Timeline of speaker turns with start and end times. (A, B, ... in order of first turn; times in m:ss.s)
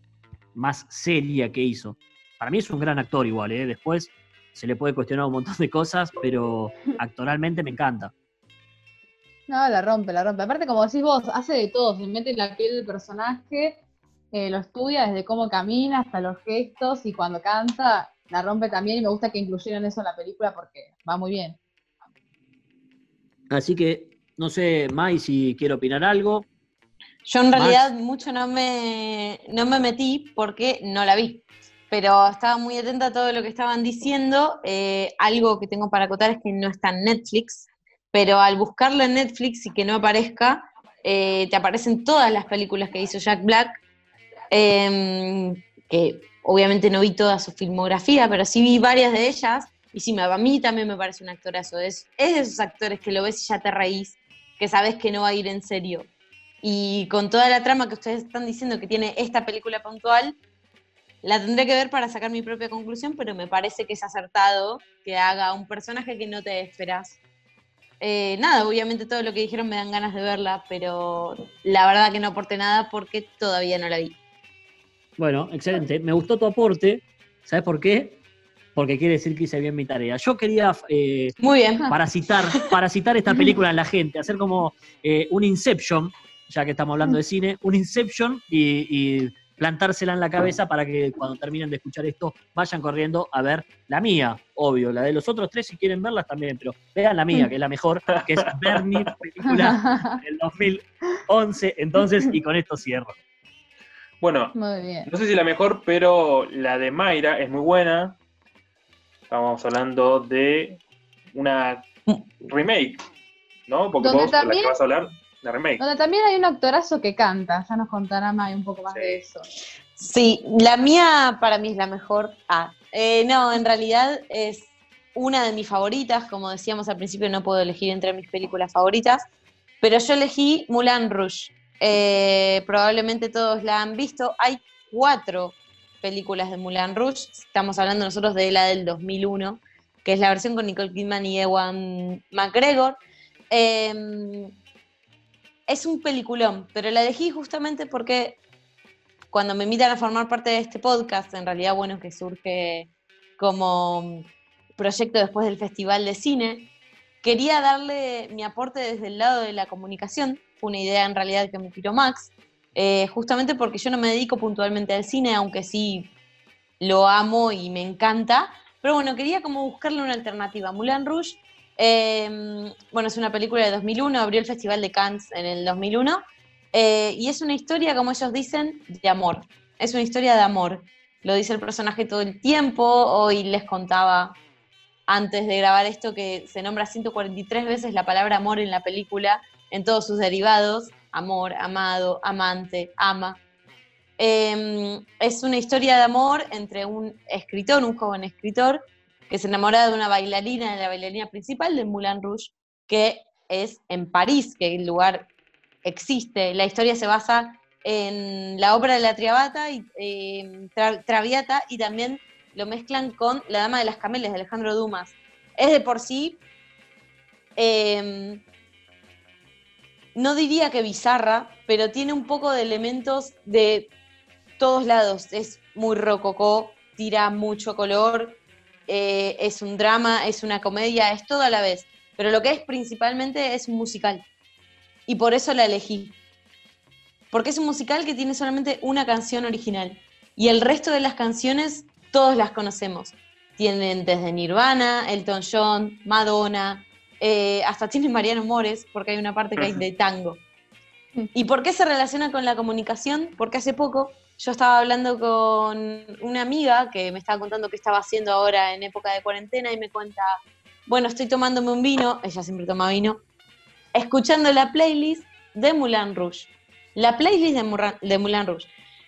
0:00.6-0:08.1 A
0:09.5-0:13.8 B
0:14.3-0:21.6 B
0:23.5-0:26.5 A
0:27.3-0:43.8 C
0:27.5-0:27.9 A
0:44.5-0:56.1 C
0:56.6-1:00.4 C
1:01.2-1:07.2 C
1:08.0-1:14.2 C
1:15.2-1:18.2 A
1:18.8-1:21.4 A
1:21.4-1:22.0 C
1:21.9-1:43.2 A
1:38.3-1:39.1 D
1:39.5-1:40.2 B
1:44.2-1:44.6 D
1:44.6-1:45.1 B
1:45.1-1:48.2 D
1:49.3-1:50.8 D
1:51.3-1:53.0 D
1:53.7-1:55.8 D
1:54.0-1:54.8 B
1:55.8-1:59.4 B
1:58.9-1:59.2 D
2:00.0-2:09.3 C
2:09.8-2:23.0 C
2:23.5-2:24.5 C
2:25.7-2:28.4 C
2:29.3-2:36.7 C
2:37.2-2:46.1 C
2:46.8-2:56.2 C
2:56.7-3:04.4 C
3:05.1-3:13.4 C
3:14.2-3:25.3 C
3:25.8-3:36.4 C
3:37.6-3:38.4 C
3:40.2-3:43.9 C
3:44.6-3:54.2 C
3:55.1-3:56.2 C
3:57.3-4:10.4 C
4:09.6-4:09.8 D
4:11.3-4:20.3 C
4:20.9-4:23.2 C
4:23.9-4:28.7 C